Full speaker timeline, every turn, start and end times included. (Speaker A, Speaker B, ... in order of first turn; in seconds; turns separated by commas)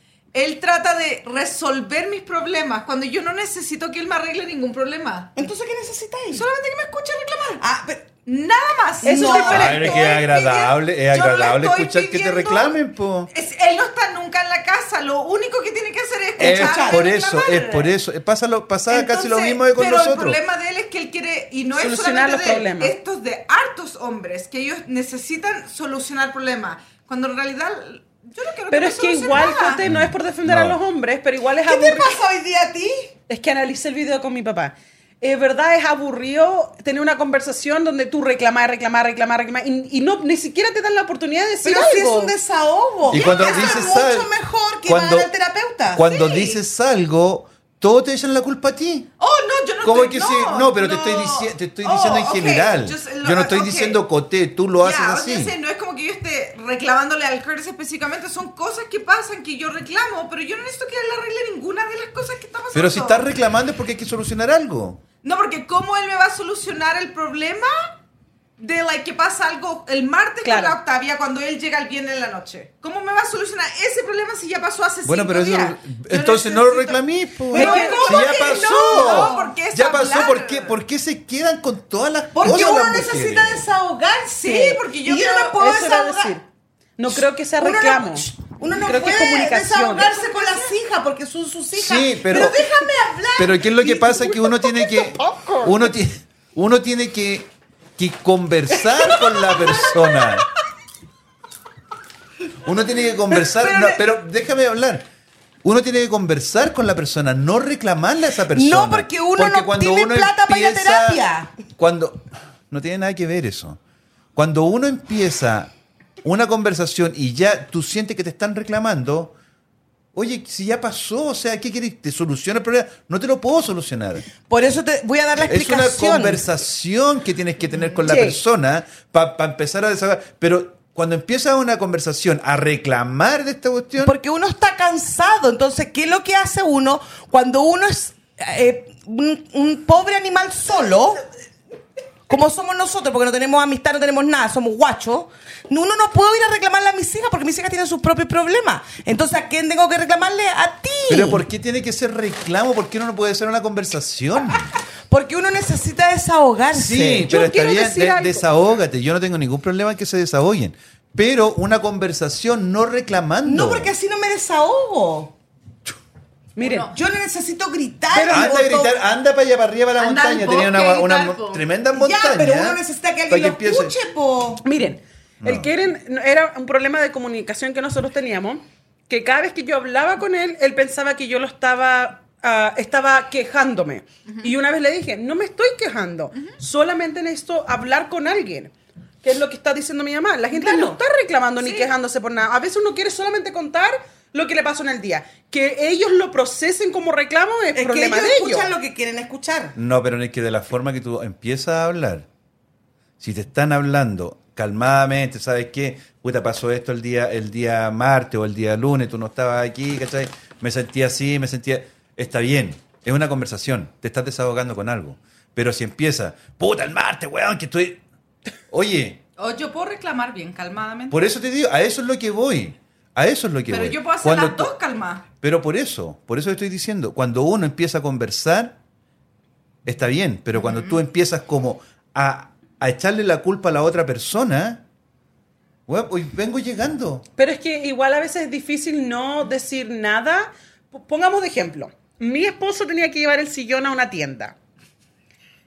Speaker A: 0.3-5.4, Speaker B: 5.4-6.5, Speaker A: 6.3-7.6, Speaker B: 7.6-8.1, Speaker A: 8.3-18.0, Speaker B: 9.0-9.8, Speaker C: 9.0-10.1, Speaker D: 9.4-13.3, Speaker B: 16.4-17.1, Speaker D: 16.4-20.4, Speaker A: 18.9-29.8, Speaker C: 21.7-22.9, Speaker C: 28.7-32.2, Speaker D: 29.8-30.8, Speaker B: 31.6-33.1, Speaker C: 33.3-42.3, Speaker B: 41.6-46.0, Speaker A: 43.1-43.9, Speaker D: 43.1-44.3, Speaker D: 44.9-45.3, Speaker D: 45.9-49.1, Speaker A: 46.0-46.6, Speaker A: 49.2-54.0, Speaker D: 49.8-55.5, Speaker A: 54.8-63.3, Speaker D: 62.7-65.0, Speaker A: 65.2-68.0, Speaker A: 68.6-80.8, Speaker C: 70.4-70.8, Speaker D: 75.0-83.7, Speaker B: 77.5-79.5, Speaker C: 77.5-78.2, Speaker B: 82.3-86.3, Speaker A: 84.3-85.6, Speaker C: 85.6-86.5, Speaker C: 87.0-90.1, Speaker B: 87.1-94.7, Speaker D: 91.7-92.7, Speaker D: 93.4-100.5, Speaker D: 102.6-105.1, Speaker B: 103.5-104.0, Speaker D: 105.6-113.8, Speaker B: 108.5-111.5, Speaker D: 114.3-115.7, Speaker D: 116.2-119.3, Speaker D: 120.1-124.2, Speaker B: 124.4-126.4, Speaker D: 125.4-134.2, Speaker C: 128.1-128.4, Speaker B: 134.0-141.2, Speaker B: 142.3-151.4, Speaker D: 151.1-154.7, Speaker B: 155.1-157.3, Speaker D: 156.7-163.9, Speaker C: 157.3-158.5, Speaker B: 163.4-165.3, Speaker C: 166.6-166.9, Speaker A: 166.6-166.9, Speaker B: 166.9-169.0, Speaker C: 168.1-168.6, Speaker D: 168.2-173.9, Speaker A: 170.0-171.7, Speaker B: 171.9-174.6, Speaker C: 174.6-198.7, Speaker D: 175.4-175.7, Speaker B: 190.6-191.0, Speaker A: 191.6-191.9, Speaker B: 197.7-199.8, Speaker D: 199.8-202.3, Speaker D: 203.2-218.0, Speaker D: 218.7-219.2, Speaker A: 219.4-221.2, Speaker D: 221.1-224.7, Speaker A: 223.7-225.2, Speaker D: 225.4-228.8, Speaker D: 229.9-234.8, Speaker A: 230.6-231.0, Speaker D: 235.9-237.3, Speaker C: 237.4-244.6